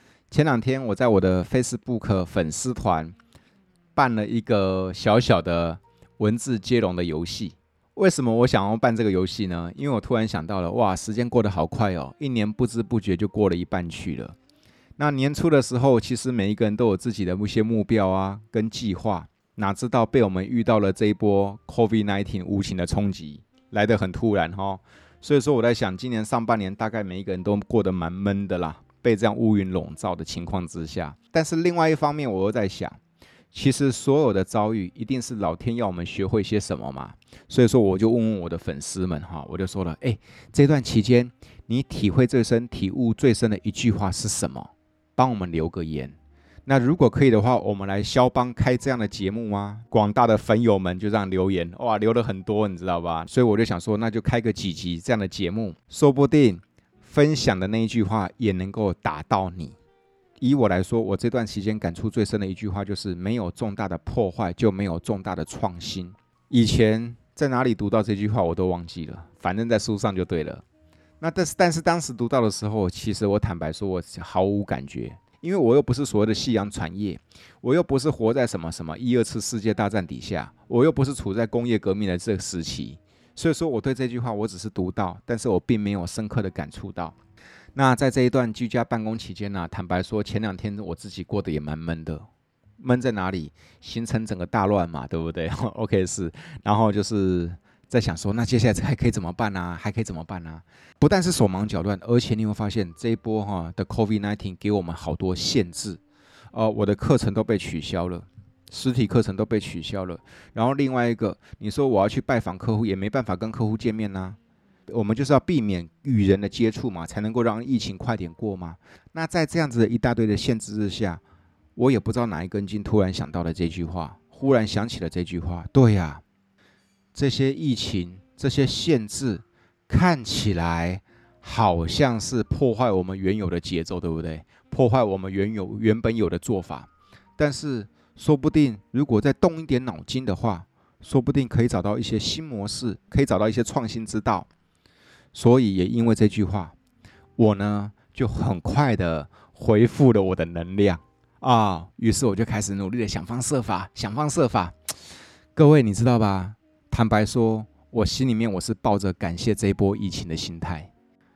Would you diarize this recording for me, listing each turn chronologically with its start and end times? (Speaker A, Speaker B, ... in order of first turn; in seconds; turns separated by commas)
Speaker A: 0.3-3.1, Speaker A: 4.0-14.3, Speaker A: 15.0-33.0, Speaker A: 33.5-46.1, Speaker A: 46.7-59.8, Speaker A: 60.4-70.6, Speaker A: 71.2-87.1, Speaker A: 87.8-92.2, Speaker A: 92.8-106.0, Speaker A: 106.5-114.4, Speaker A: 114.9-121.2, Speaker A: 121.8-126.2, Speaker A: 127.1-144.5, Speaker A: 145.3-146.7, Speaker A: 147.4-154.8, Speaker A: 155.6-160.9